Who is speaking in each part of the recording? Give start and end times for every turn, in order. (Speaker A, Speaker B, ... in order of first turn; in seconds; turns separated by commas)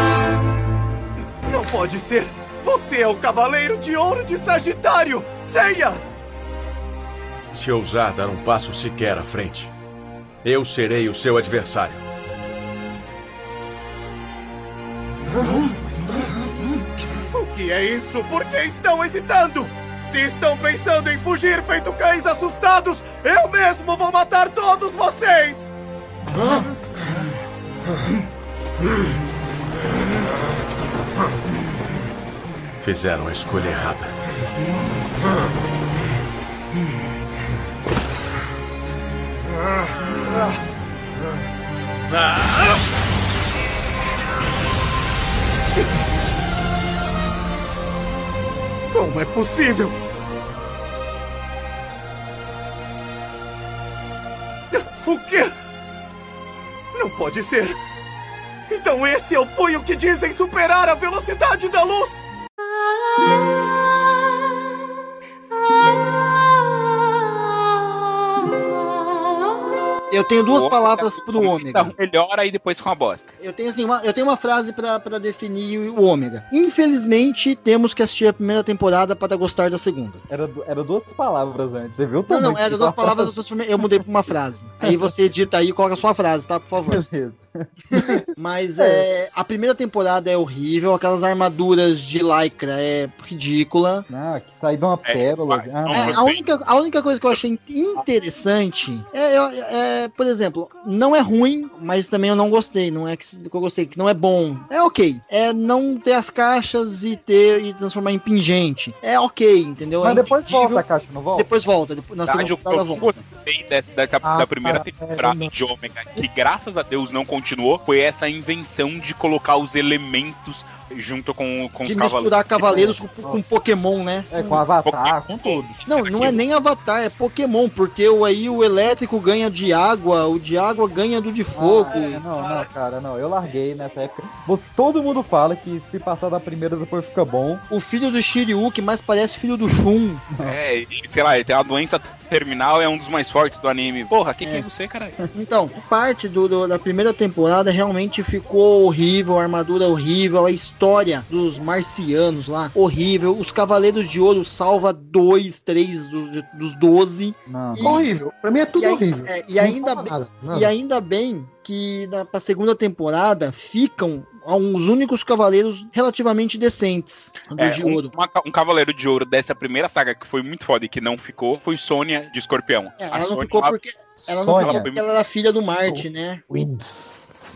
Speaker A: 1.4-6.0, Speaker B: 7.5-9.7, Speaker B: 10.4-12.0, Speaker A: 15.4-16.2, Speaker A: 17.2-25.7, Speaker B: 32.8-34.0, Speaker A: 48.9-50.0, Speaker A: 54.7-55.5, Speaker A: 56.9-57.8, Speaker A: 58.7-62.2, Speaker C: 70.1-71.9, Speaker D: 70.5-73.3, Speaker C: 73.4-80.2, Speaker E: 80.3-83.3, Speaker C: 82.3-87.0, Speaker E: 86.9-88.0, Speaker C: 88.3-94.0, Speaker E: 88.8-89.0, Speaker E: 94.1-96.2, Speaker D: 95.0-96.4, Speaker C: 95.9-110.8, Speaker E: 110.0-111.5, Speaker C: 111.3-113.3, Speaker D: 112.3-122.9, Speaker F: 114.2-115.5, Speaker C: 121.8-124.6, Speaker E: 124.3-126.3, Speaker D: 124.8-126.4, Speaker C: 125.8-132.0, Speaker E: 131.5-137.6, Speaker F: 131.9-132.7, Speaker C: 137.7-140.2, Speaker D: 140.4-145.2, Speaker C: 145.3-158.1, Speaker E: 157.5-157.9, Speaker F: 157.8-160.7, Speaker C: 158.7-168.1, Speaker D: 167.5-173.7, Speaker C: 173.0-176.4, Speaker E: 174.3-174.9, Speaker D: 174.4-175.0, Speaker F: 175.8-177.1